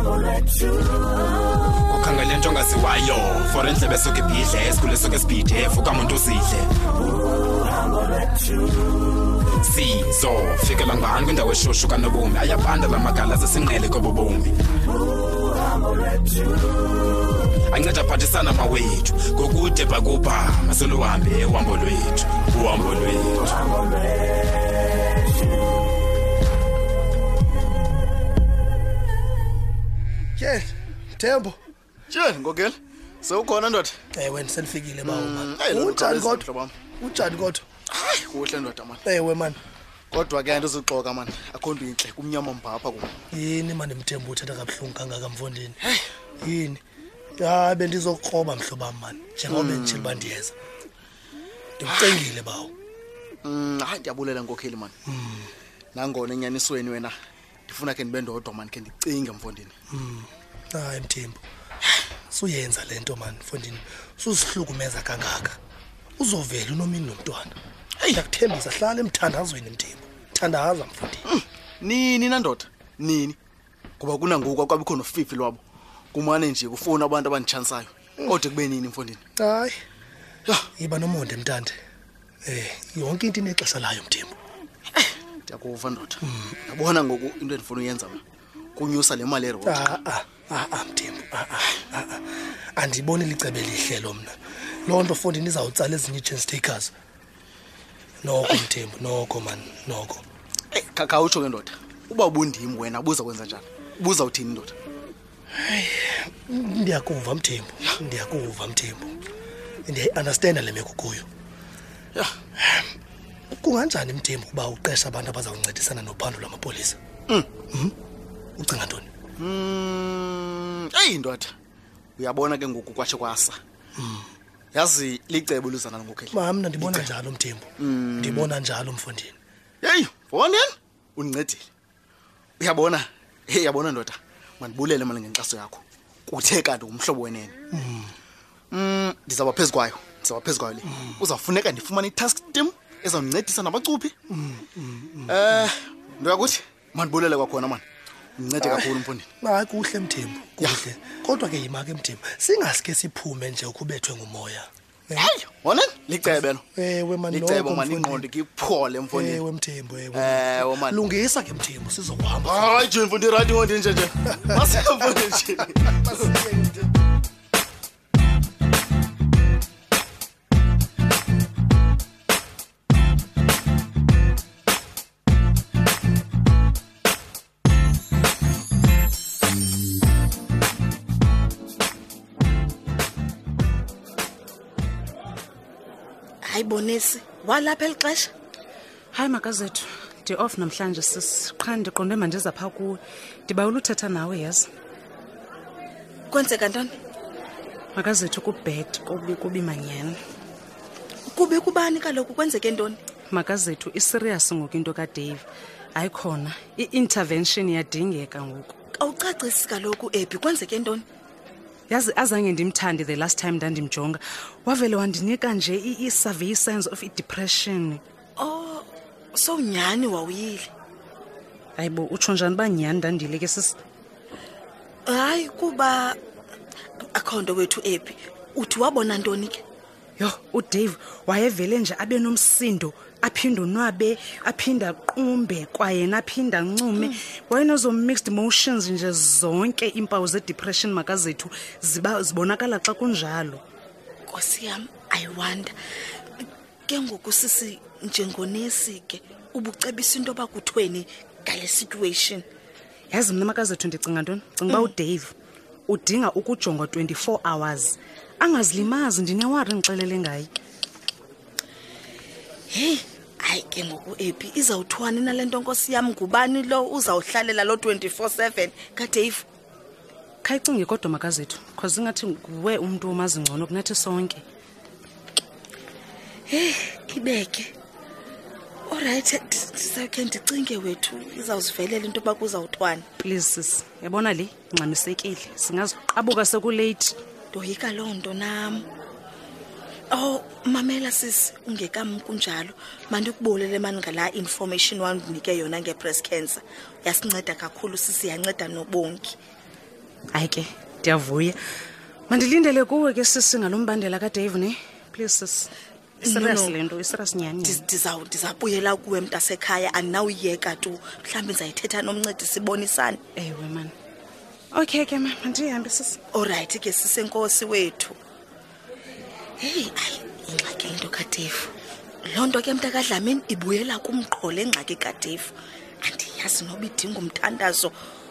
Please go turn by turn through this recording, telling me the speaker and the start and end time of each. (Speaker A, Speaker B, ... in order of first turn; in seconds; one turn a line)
Speaker A: 1.9-3.3
Speaker A: 5.0-6.3
Speaker B: 30.4-31.6
Speaker C: 32.1-34.0
Speaker B: 34.1-36.5
Speaker C: 35.0-36.7
Speaker B: 37.0-37.6
Speaker C: 37.9-39.0
Speaker B: 39.0-39.6
Speaker C: 40.1-43.1
Speaker B: 43.3-45.8
Speaker B: 46.4-46.8
Speaker B: 47.4-50.5
Speaker C: 49.5-50.3
Speaker B: 51.8-52.7
Speaker C: 51.8-52.2
Speaker C: 53.4-54.9
Speaker B: 55.0-55.5
Speaker C: 55.9-57.1
Speaker C: 57.7-59.7
Speaker B: 59.9-61.4
Speaker B: 62.3-65.6
Speaker B: 66.2-67.5
Speaker C: 68.0-68.2
Speaker B: 68.1-71.2
Speaker C: 71.2-73.4
Speaker C: 74.0-75.6
Speaker C: 76.1-79.2
Speaker B: 79.4-79.8
Speaker B: 80.8-81.8
Speaker B: 82.4-84.3
Speaker C: 85.5-88.2
Speaker B: 86.2-86.5
Speaker C: 88.8-89.9
Speaker B: 89.6-96.9
Speaker B: 98.2-100.2
Speaker C: 100.7-104.8
Speaker B: 105.5-109.1
Speaker B: 109.8-111.3
Speaker B: 112.6-112.9
Speaker B: 113.5-117.0
Speaker C: 117.3-117.5
Speaker B: 118.6-119.1
Speaker C: 119.4-121.5
Speaker C: 122.2-123.6
Speaker B: 124.0-124.3
Speaker C: 124.7-127.1
Speaker B: 126.3-129.4
Speaker C: 127.8-128.6
Speaker C: 129.8-131.7
Speaker C: 132.6-137.6
Speaker B: 137.7-138.2
Speaker C: 138.7-144.1
Speaker B: 140.8-141.2
Speaker B: 144.3-145.7
Speaker C: 145.3-147.8
Speaker C: 148.4-149.3
Speaker B: 148.6-155.3
Speaker C: 155.2-156.6
Speaker B: 156.2-158.3
Speaker C: 157.3-159.4
Speaker B: 159.1-162.9
Speaker C: 160.1-161.0
Speaker C: 162.4-166.4
Speaker B: 164.3-165.1
Speaker B: 165.9-166.8
Speaker D: 186.4-188.3
Speaker E: 189.1-194.7
Speaker D: 196.3-196.9
Speaker E: 197.9-200.2
Speaker D: 201.3-203.0
Speaker E: 203.3-208.7
Speaker D: 209.0-211.0
Speaker E: 211.9-218.0
Speaker D: 218.4-220.7
Speaker E: 221.8-223.8
Speaker D: 225.1-226.2
Speaker D: 227.1-229.6
Speaker E: 230.2-243.6
Speaker D: 244.3-245.7
Speaker D: 246.9-252.4
Speaker E: 253.1-255.3
Speaker E: 255.9-260.5
Speaker D: 262.7-269.4
Speaker E: 270.4-274.4
Speaker D: 276.5-277.7
Speaker D: 278.9-283.0
Speaker E: 283.2-287.1
Speaker D: 287.5-288.8
Speaker D: 290.1-299.4
Speaker E: 300.3-301.6
Speaker E: 302.3-307.8
Speaker D: 306.2-306.8
Speaker D: 307.6-313.2
Speaker E: 313.4-313.9
Speaker E: 314.7-316.2
Speaker D: 316.3-318.1
Speaker D: 319.6-321.7
Speaker D: 322.3-325.5
Speaker D: 326.0-327.9